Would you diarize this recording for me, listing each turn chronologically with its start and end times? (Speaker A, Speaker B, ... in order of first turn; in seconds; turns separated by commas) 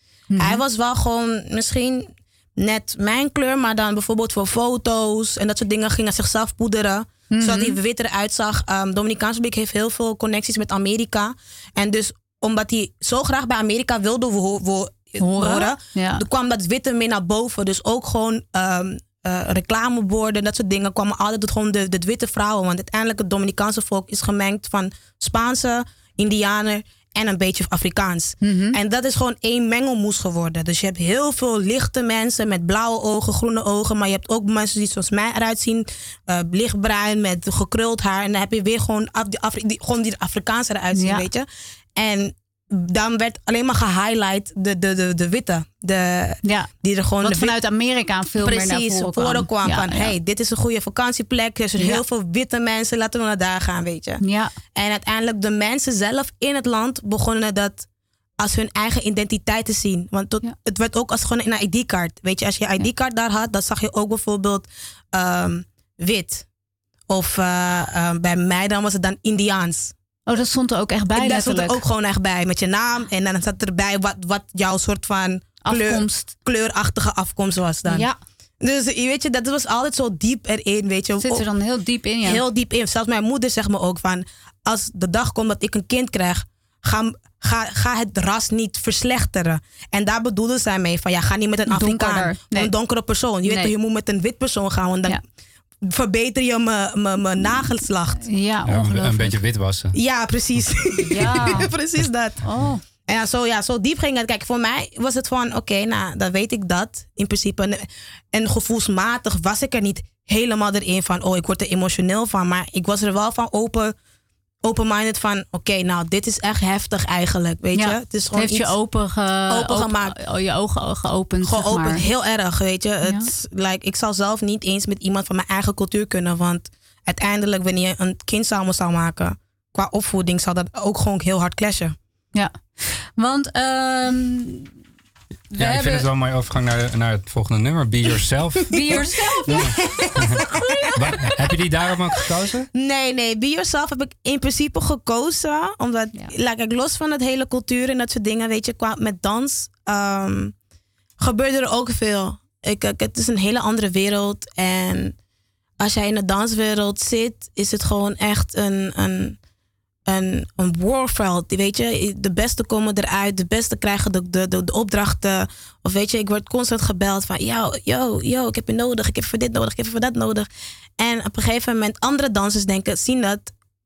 Speaker A: 0.3-0.6, Speaker B: 0.4-47.5, Speaker A: 7.3-7.8, Speaker A: 15.2-16.2, Speaker A: 28.4-28.8, Speaker A: 40.9-41.3, Speaker A: 46.4-46.7, Speaker A: 47.2-50.1, Speaker B: 48.4-54.2, Speaker A: 54.2-54.5, Speaker B: 54.7-57.9, Speaker B: 58.4-66.5, Speaker B: 67.1-69.9, Speaker A: 70.3-71.8, Speaker B: 71.1-78.0, Speaker A: 75.6-76.3, Speaker A: 77.8-78.2, Speaker B: 78.6-81.5, Speaker A: 81.2-82.4, Speaker B: 82.2-95.2, Speaker A: 91.7-92.7, Speaker A: 93.4-93.7, Speaker B: 95.8-98.2, Speaker A: 98.2-99.3, Speaker C: 98.7-100.0, Speaker B: 99.9-102.4, Speaker A: 101.1-101.7, Speaker A: 102.4-102.8, Speaker B: 103.0-113.9, Speaker B: 114.6-118.7, Speaker A: 117.7-122.0, Speaker B: 119.5-120.2, Speaker B: 121.4-131.9, Speaker A: 123.0-123.3, Speaker A: 132.3-134.7, Speaker A: 135.5-136.1, Speaker C: 135.6-142.7, Speaker A: 138.7-139.8, Speaker B: 138.9-140.8, Speaker A: 140.4-140.9, Speaker B: 142.7-150.5, Speaker B: 151.2-155.2, Speaker B: 155.8-159.4, Speaker B: 160.1-173.5